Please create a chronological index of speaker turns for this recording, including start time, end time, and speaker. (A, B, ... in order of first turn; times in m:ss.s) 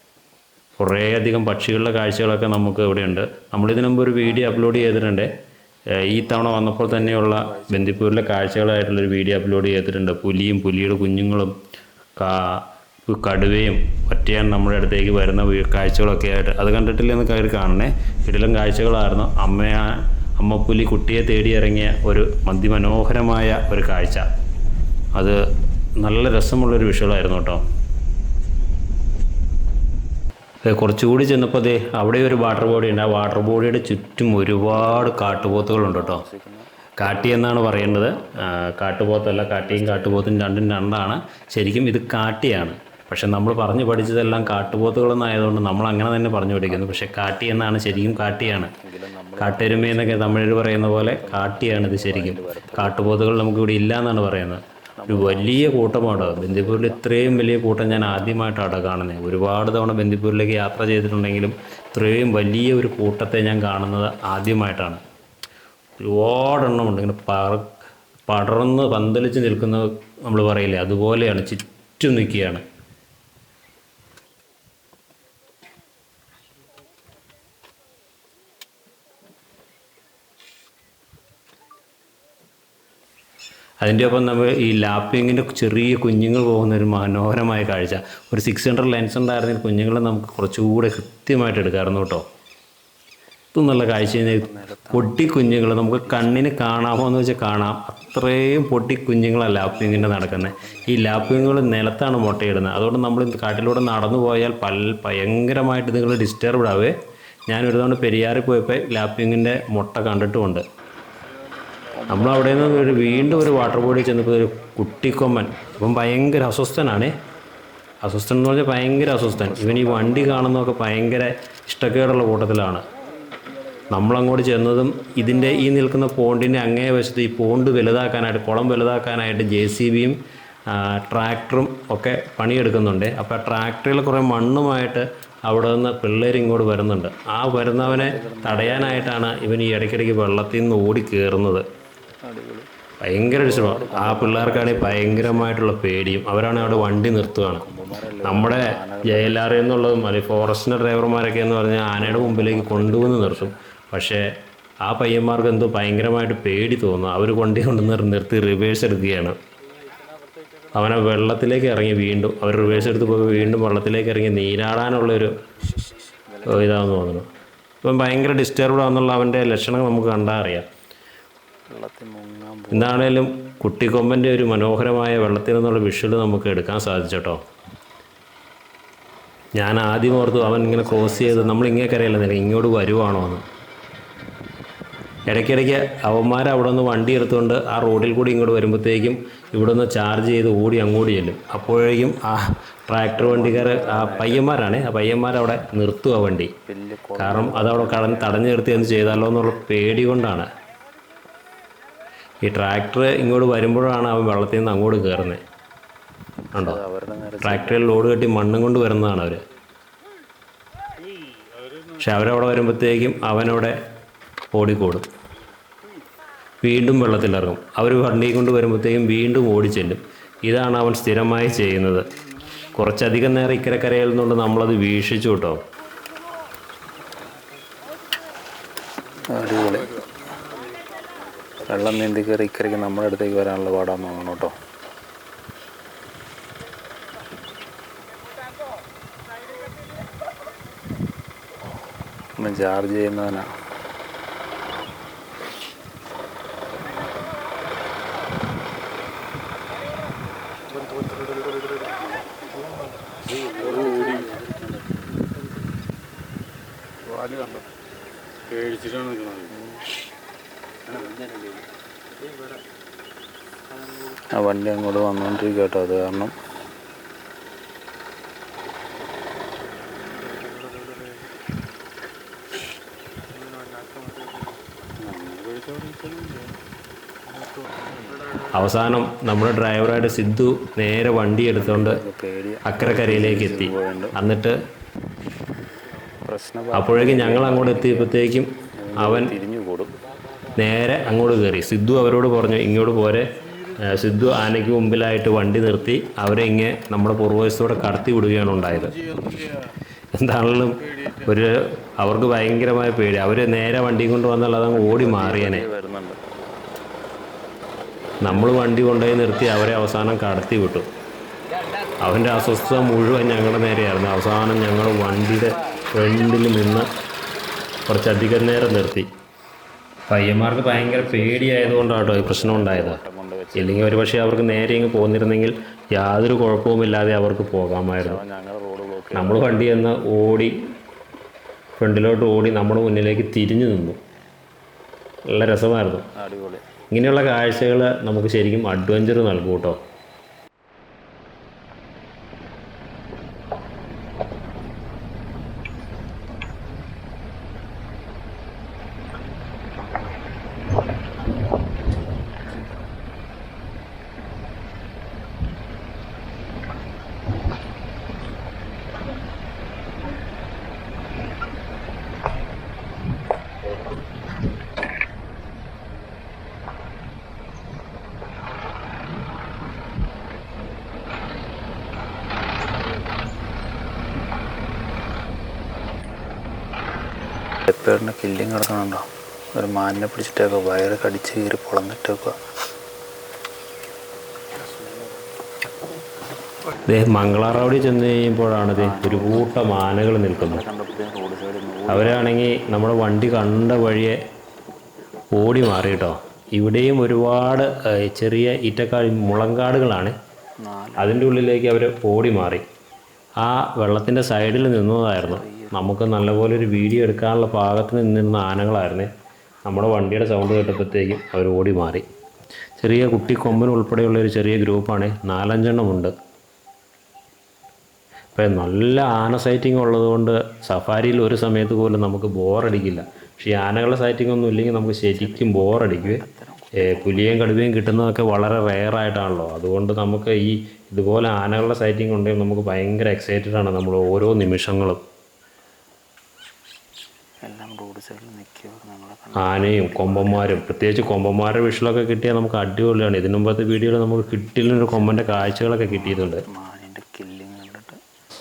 0:00.8-0:05.3 A
0:04.2-0:04.9 B
0:06.0-0:11.5 A
0:06.6-0:08.2 B
0:12.2-0:24.3 A
0:26.0-0:27.6 A
0:30.6-0:36.2 A
0:34.7-0:38.4 B
0:37.0-0:48.7 A
0:39.3-0:40.4 B
0:43.8-0:45.1 B
0:46.6-0:53.1 B
0:49.4-1:05.0 A
0:55.0-0:57.7 B
1:06.0-1:07.7 A
1:08.3-1:12.6 A
1:23.8-1:32.2 A
1:24.2-1:25.7 B
1:33.5-1:47.0 A
1:34.0-1:36.4 B
1:39.6-1:41.7 B
1:47.5-1:50.6 A
1:51.9-1:53.9 B
1:52.1-1:57.2 A
1:58.0-2:02.8 A
1:59.3-2:00.6 B
2:03.9-2:21.6 A
2:17.8-2:19.2 B
2:22.2-2:22.7 B
2:23.0-2:27.6 A
2:23.4-2:25.6 B
2:27.6-2:29.7 B
2:28.2-2:34.3 A
2:32.0-2:33.6 B
2:34.8-2:39.4 A
2:40.7-2:45.4 A
2:42.6-2:43.7 B
2:46.3-2:46.9 B
2:46.4-2:47.3 A
2:47.8-2:50.7 A
2:51.7-2:53.2 B
2:52.7-2:57.4 A
2:59.6-3:03.4 A
3:00.1-3:02.2 B
3:05.2-3:16.5 A
3:13.1-3:14.5 B
3:16.6-3:19.5 B
3:17.2-3:20.5 A
3:22.4-3:25.4 A
3:26.5-3:28.1 B
3:26.5-3:26.8 A
3:27.4-3:29.4 A
3:32.0-3:33.8 A
3:34.5-3:35.1 A
3:36.6-3:42.1 A
3:42.7-3:45.6 A
3:49.2-3:50.0 B
3:51.6-3:54.5 B
4:02.4-4:03.5 B
4:10.7-4:12.0 C
4:13.4-4:14.6 C
4:13.6-4:14.4 B
4:17.0-4:17.6 C
4:18.5-4:19.5 C
4:19.5-4:19.8 B
4:20.9-4:21.6 C
4:24.2-4:26.3 B
4:30.1-4:31.2 C
4:33.3-4:34.6 C
4:35.0-4:36.4 B
4:37.3-4:38.6 C
4:38.5-4:42.0 A
4:41.5-4:44.2 B
4:42.6-4:44.6 A
4:46.2-4:48.2 B
4:46.7-4:49.3 A
4:48.7-4:49.9 B
4:50.5-4:59.0 A
4:58.7-4:59.6 C
5:00.1-5:05.6 A
5:01.0-5:01.2 C
5:04.7-5:06.2 B
5:08.2-5:10.9 A
5:12.0-5:16.9 A
5:17.9-5:19.1 A
5:20.1-5:23.0 A
5:20.5-5:24.3 B
5:23.5-5:28.2 A
5:28.0-5:29.6 B
5:29.1-5:30.6 A
5:31.8-5:34.0 A
5:35.3-5:36.1 A
5:36.1-5:36.6 B
5:36.9-5:39.8 A
6:17.7-6:22.4 B
6:26.8-6:30.6 A
6:28.8-6:29.7 B
6:30.4-6:32.3 B
6:31.9-6:34.2 A
6:35.3-6:40.2 A
6:40.6-6:41.2 B
6:41.0-6:42.7 A
6:43.4-6:49.1 A
6:45.2-6:45.8 B
6:49.6-6:52.0 A
6:52.8-6:56.1 A
6:53.2-6:53.6 B
6:58.3-7:06.2 A
7:05.0-7:07.5 B
7:06.8-7:15.0 A
7:17.4-7:20.6 B
7:19.4-7:26.4 A
7:24.9-7:28.0 B